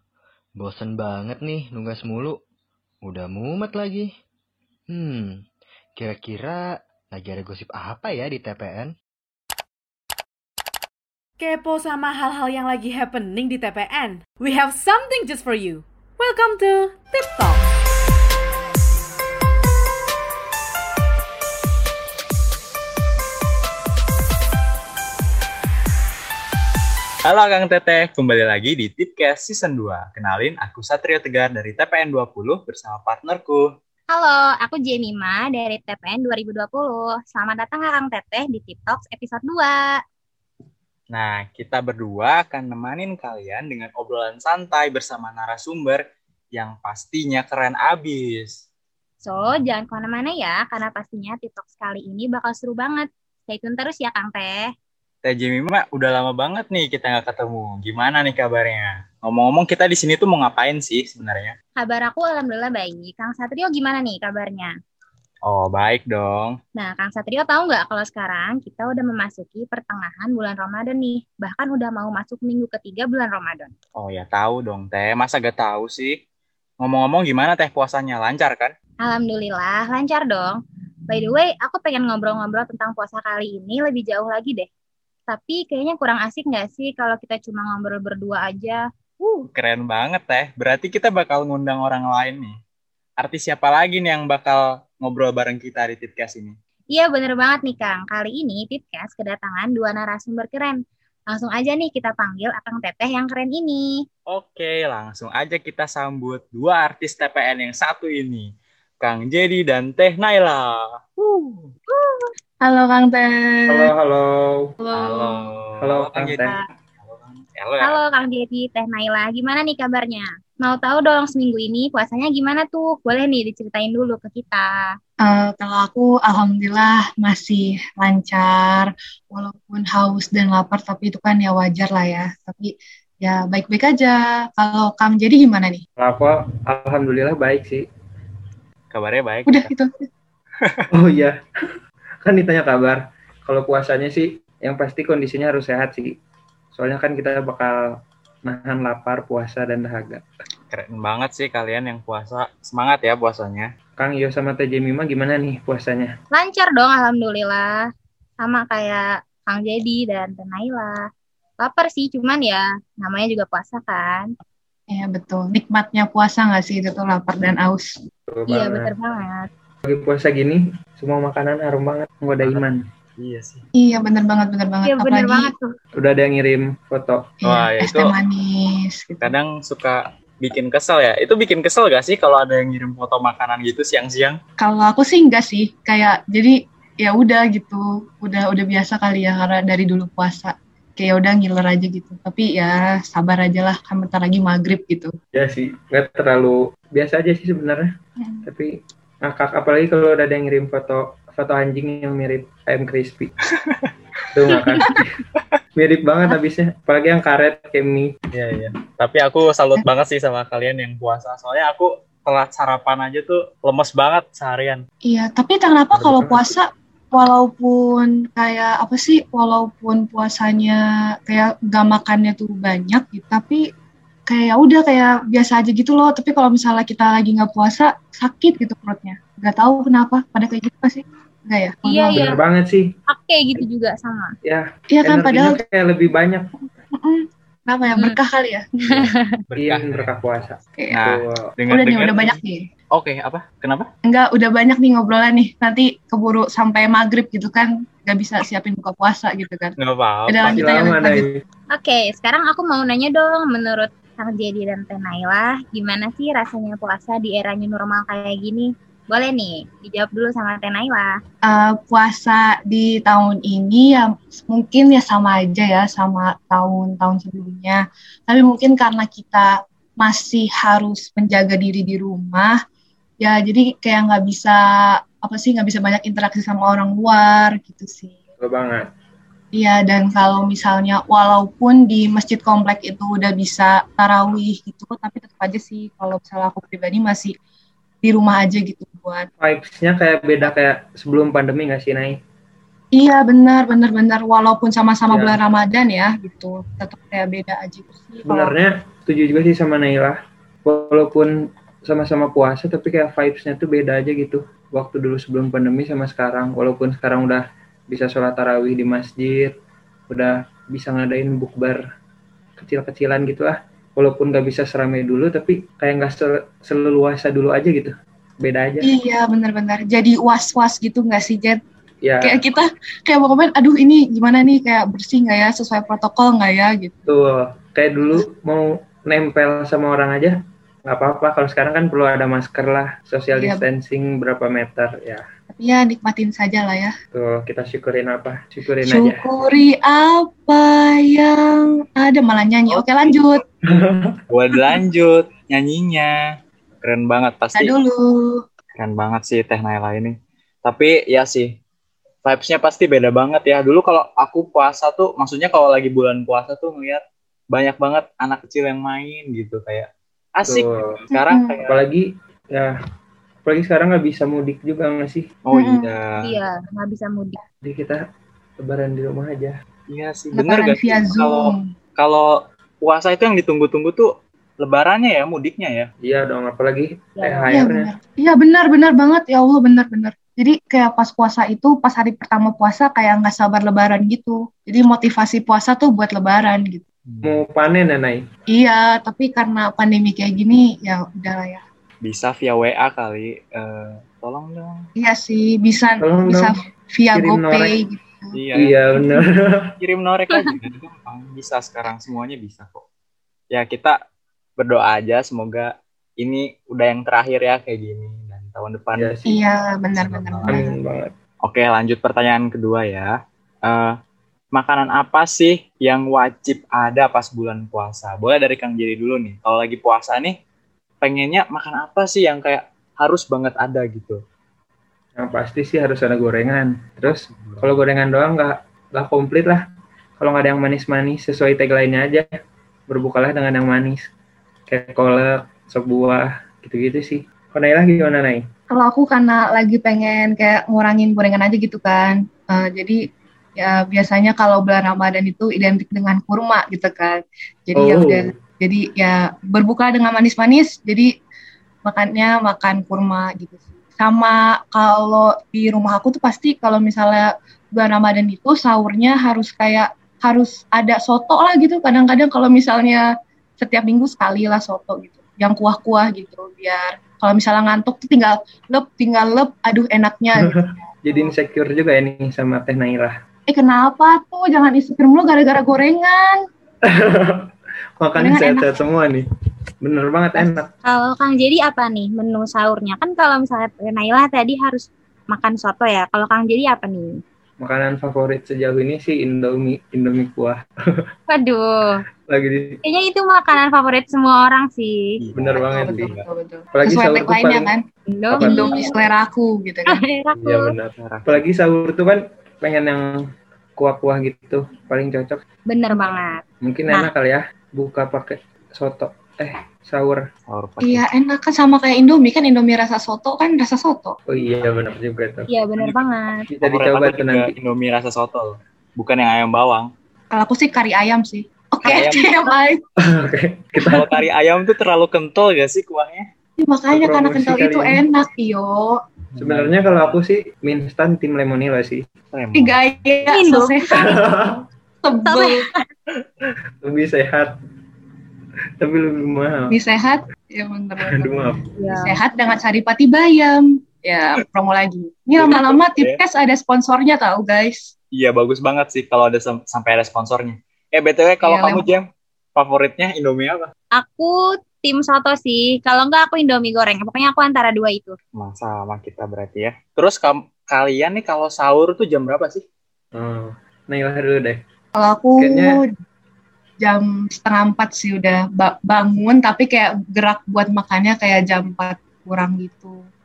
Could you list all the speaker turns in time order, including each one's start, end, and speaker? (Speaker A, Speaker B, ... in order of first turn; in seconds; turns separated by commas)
Speaker A: 0.6-2.4, Speaker A: 3.0-4.1, Speaker A: 4.9-5.4, Speaker A: 6.0-6.6, Speaker A: 7.1-8.9, Speaker B: 11.4-17.7, Speaker C: 27.3-33.7, Speaker D: 34.1-39.8, Speaker C: 41.1-46.0, Speaker C: 46.5-48.6, Speaker D: 49.2-54.7, Speaker C: 55.2-61.5, Speaker D: 61.8-64.7, Speaker C: 65.5-66.6, Speaker D: 66.8-73.7, Speaker C: 74.0-76.2, Speaker C: 76.8-78.7, Speaker D: 79.0-84.7, Speaker D: 85.3-89.5, Speaker C: 89.5-92.5, Speaker C: 93.2-96.5, Speaker D: 96.9-100.8, Speaker D: 101.3-103.9, Speaker C: 104.3-108.5, Speaker C: 109.0-111.7, Speaker D: 111.9-112.3, Speaker E: 112.6-113.9, Speaker F: 113.7-114.7, Speaker E: 114.8-115.5, Speaker C: 115.0-118.0, Speaker F: 115.8-116.6, Speaker D: 117.8-124.7, Speaker E: 125.2-135.8, Speaker F: 136.0-137.8, Speaker C: 138.9-139.7, Speaker E: 139.5-140.1, Speaker F: 140.9-141.3, Speaker F: 142.2-146.1, Speaker F: 146.7-147.7, Speaker F: 148.4-150.2, Speaker C: 150.7-153.7, Speaker F: 154.0-156.1, Speaker D: 156.3-157.8, Speaker D: 158.4-161.0, Speaker D: 161.6-164.3, Speaker E: 164.9-168.0, Speaker F: 168.3-168.9, Speaker D: 168.5-169.5, Speaker F: 169.8-172.9, Speaker C: 173.2-173.7, Speaker E: 173.8-175.5, Speaker D: 174.8-175.7, Speaker F: 176.0-177.3, Speaker E: 177.4-179.3, Speaker C: 177.4-178.1, Speaker C: 179.2-184.4, Speaker E: 184.6-195.1, Speaker F: 195.3-197.9, Speaker E: 198.2-198.4, Speaker F: 199.2-203.3, Speaker F: 204.3-205.2, Speaker F: 205.8-208.1, Speaker C: 208.3-214.9, Speaker E: 215.1-223.6, Speaker F: 215.9-216.5, Speaker E: 224.3-232.3, Speaker D: 231.8-232.4, Speaker F: 232.1-232.9, Speaker D: 233.1-234.3, Speaker F: 234.4-236.4, Speaker E: 234.9-235.6, Speaker E: 236.9-239.0, Speaker D: 237.9-238.2, Speaker D: 239.0-239.4, Speaker C: 239.5-242.4, Speaker F: 239.6-241.5, Speaker E: 240.8-241.0, Speaker E: 241.7-242.7, Speaker C: 242.9-243.9, Speaker E: 244.1-249.8, Speaker C: 249.8-250.9, Speaker E: 250.3-251.3, Speaker F: 250.4-251.4, Speaker D: 251.7-261.1, Speaker E: 261.4-272.6, Speaker E: 273.2-274.6, Speaker E: 275.2-278.2, Speaker F: 278.4-278.9, Speaker E: 279.6-287.4, Speaker E: 288.0-289.3, Speaker F: 289.4-292.2, Speaker E: 292.9-298.5, Speaker F: 295.1-295.4, Speaker F: 298.3-301.3, Speaker F: 301.9-309.5, Speaker F: 310.1-311.8, Speaker F: 312.6-318.9, Speaker E: 318.8-321.6, Speaker F: 322.0-322.4, Speaker E: 322.2-326.9, Speaker F: 327.1-330.4, Speaker F: 330.9-335.2, Speaker E: 333.3-333.6, Speaker E: 335.5-336.9, Speaker F: 337.1-339.2, Speaker E: 338.9-343.4, Speaker F: 343.7-344.2, Speaker C: 344.3-346.2, Speaker C: 346.8-347.7, Speaker E: 347.6-348.4, Speaker C: 348.8-351.5, Speaker C: 352.2-357.0, Speaker C: 357.5-361.9, Speaker F: 360.5-361.0, Speaker E: 361.1-361.6, Speaker F: 361.6-362.0, Speaker F: 363.5-365.3, Speaker C: 365.5-366.3, Speaker E: 365.5-365.9, Speaker D: 366.2-367.4, Speaker F: 367.6-368.0, Speaker F: 368.6-369.5, Speaker C: 369.9-372.3, Speaker E: 370.4-371.6, Speaker C: 372.8-374.1, Speaker C: 374.6-375.9, Speaker F: 376.1-377.9, Speaker D: 377.2-377.5, Speaker E: 377.5-386.8, Speaker C: 387.1-387.4, Speaker F: 387.2-388.2, Speaker E: 388.5-391.6, Speaker C: 392.0-394.9, Speaker E: 395.0-398.3, Speaker F: 396.0-396.6, Speaker F: 397.1-397.8, Speaker C: 398.3-398.8, Speaker F: 398.6-399.7, Speaker C: 399.8-402.9, Speaker C: 403.5-404.0, Speaker C: 404.6-409.4, Speaker F: 409.0-409.3, Speaker E: 409.3-410.8, Speaker C: 410.0-410.8, Speaker F: 410.5-411.1, Speaker C: 411.4-413.1, Speaker C: 413.6-413.9, Speaker C: 414.5-420.4, Speaker C: 421.0-424.2, Speaker F: 425.2-429.6, Speaker C: 427.0-427.8, Speaker F: 430.2-432.3, Speaker F: 432.9-434.0, Speaker F: 434.7-438.4, Speaker E: 438.7-443.1, Speaker E: 443.6-451.1, Speaker F: 447.8-448.4, Speaker E: 451.9-463.0, Speaker E: 463.6-471.3, Speaker F: 470.4-473.1, Speaker E: 473.5-476.4, Speaker F: 476.9-477.5, Speaker F: 478.0-479.2, Speaker E: 478.2-478.8, Speaker F: 479.8-480.7, Speaker D: 480.9-487.1, Speaker F: 487.6-490.6, Speaker D: 491.3-492.0, Speaker F: 492.3-492.8, Speaker D: 492.8-495.0, Speaker C: 495.2-496.3, Speaker F: 495.4-496.1, Speaker E: 495.6-497.8, Speaker F: 496.7-497.7, Speaker D: 498.1-498.9, Speaker F: 498.3-498.8, Speaker E: 498.3-500.0, Speaker D: 499.9-500.7, Speaker F: 500.3-503.0, Speaker C: 501.0-501.4, Speaker F: 503.8-505.4, Speaker D: 505.7-506.4, Speaker F: 506.6-510.2, Speaker C: 510.5-511.1, Speaker E: 510.8-514.2, Speaker F: 514.3-515.5, Speaker D: 515.5-516.5, Speaker F: 516.5-517.5, Speaker C: 516.6-519.9, Speaker E: 520.3-522.8, Speaker C: 521.8-522.3, Speaker F: 523.0-524.1, Speaker C: 523.8-526.3, Speaker E: 526.6-529.0, Speaker F: 526.9-528.0, Speaker C: 529.3-530.2, Speaker F: 529.4-532.0, Speaker C: 532.3-533.2, Speaker E: 532.5-534.1, Speaker D: 533.3-533.8, Speaker F: 533.9-534.6, Speaker E: 535.0-535.6, Speaker D: 535.3-535.8, Speaker F: 536.8-537.5, Speaker F: 538.8-539.8, Speaker E: 539.7-541.4, Speaker F: 541.0-541.7, Speaker D: 541.8-542.1, Speaker E: 541.9-547.9, Speaker C: 545.4-546.2, Speaker C: 548.1-552.0, Speaker E: 551.4-551.9, Speaker C: 552.6-553.7, Speaker D: 554.0-558.2, Speaker C: 558.4-562.6, Speaker F: 563.1-564.6, Speaker E: 565.0-565.8, Speaker F: 565.4-565.8, Speaker E: 566.8-573.0